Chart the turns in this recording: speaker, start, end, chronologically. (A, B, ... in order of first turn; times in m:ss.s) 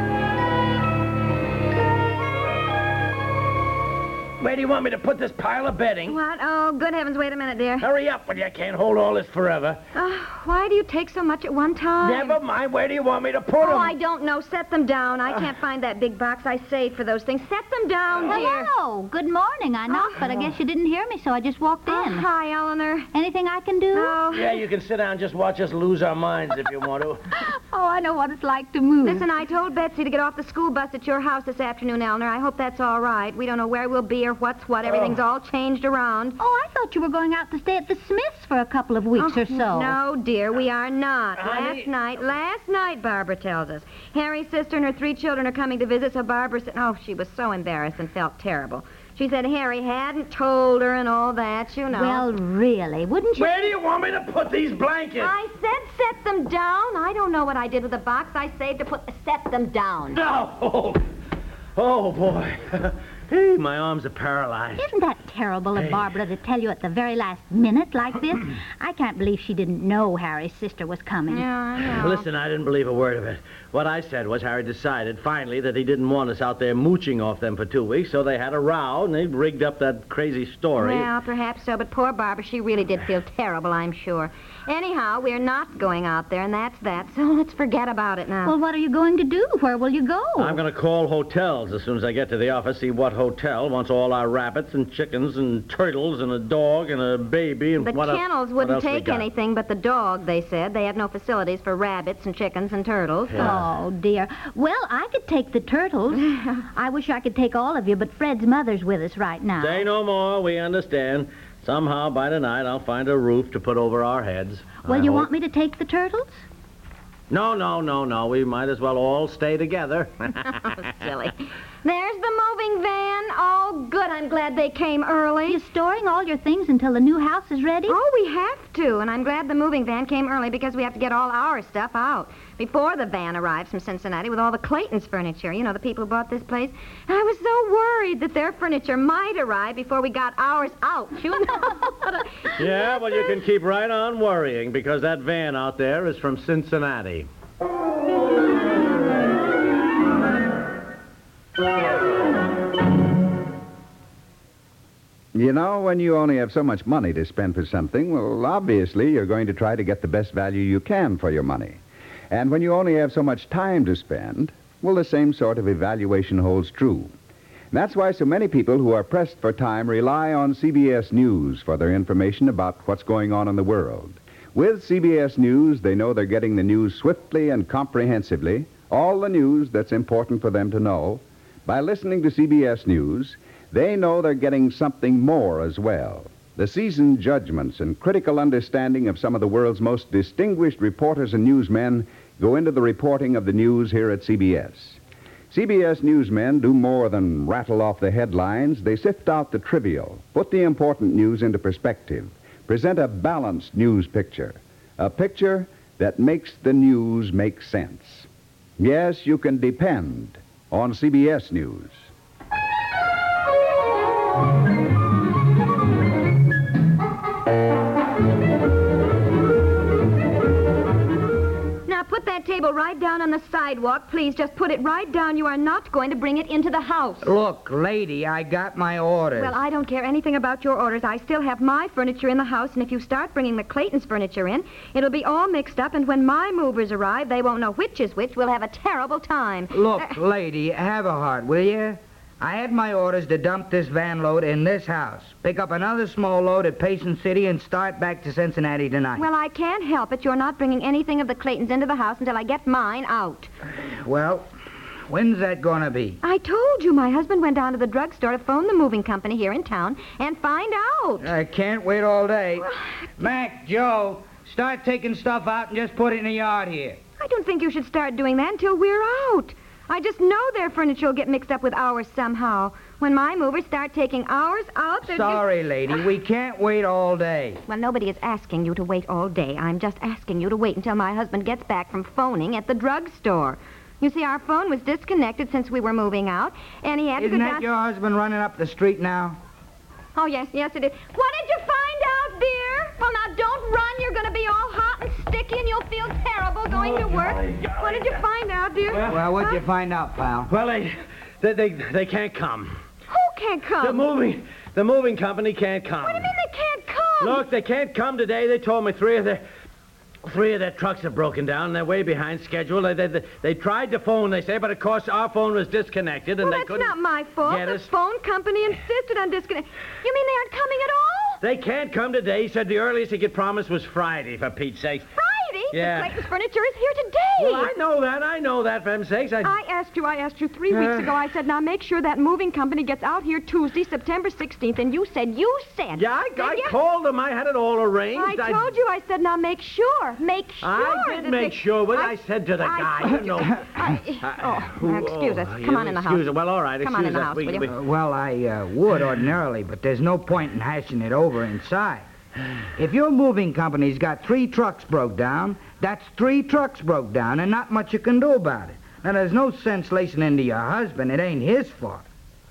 0:04.4-0:06.2 A
0:06.0-0:07.9 B
0:07.8-0:09.8 A
0:09.9-0:12.4 B
0:12.0-0:14.0 A
0:13.6-0:18.7 B
0:18.2-0:22.3 C
0:19.9-0:20.5 B
0:21.9-0:23.1 B
0:23.1-0:24.2 C
0:23.9-0:24.6 B
0:24.3-0:27.2 A
0:27.3-0:29.3 C
0:29.0-0:36.4 B
0:34.8-0:35.2 A
0:36.4-0:40.0 C
0:39.2-0:52.2 B
0:41.4-0:41.9 A
0:51.9-0:53.8 C
0:53.4-0:55.3 A
0:55.2-1:00.2 B
1:00.1-1:01.0 A
1:01.8-1:04.9 A
1:04.8-1:11.5 C
1:05.8-1:06.1 A
1:11.3-1:12.3 B
1:11.9-1:21.1 A
1:20.8-1:28.6 B
1:28.4-1:30.6 C
1:30.4-1:39.3 A
1:37.8-1:43.6 B
1:43.3-1:43.7 A
1:43.4-1:49.9 C
1:46.3-1:46.6 B
1:49.6-1:55.3 A
1:54.8-1:56.4 C
1:57.3-2:00.9 A
2:00.5-2:05.6 B
2:05.4-2:08.0 C
2:07.9-2:23.3 B
2:22.6-2:27.3 A
2:35.3-2:41.8 D
2:42.3-2:47.1 D
2:47.7-3:15.0 D
3:15.5-3:32.0 D
3:41.8-3:47.3 B
3:47.2-3:49.6 E
3:49.3-4:00.2 B
3:59.7-4:09.2 E
4:09.2-4:13.5 B
4:13.8-4:14.5 E
4:15.1-4:16.2 E
4:16.2-4:21.3 B
4:21.2-4:27.0 E
4:22.6-4:23.1 B
4:27.2-4:35.4 B
4:35.0-4:37.6 E
4:37.7-4:47.7 B
4:47.2-4:49.4 E
4:50.2-4:59.6 B
4:56.8-4:58.2 A
4:58.9-4:59.2 A
4:59.1-5:00.5 E
5:00.5-5:02.8 A
5:03.1-5:04.0 B
5:03.8-5:06.3 A
5:06.0-5:07.4 B
5:07.2-5:09.4 A
5:10.2-5:17.9 A
5:16.4-5:21.4 B
5:21.4-5:25.1 A
5:25.2-5:27.7 B
5:25.7-5:26.2 A
5:27.4-5:29.6 A
5:29.4-5:36.8 B
5:30.7-5:31.2 A
5:35.9-5:38.7 A
5:38.1-5:47.7 B
5:40.6-5:47.7 A
5:47.7-5:52.0 E
5:52.8-6:02.0 E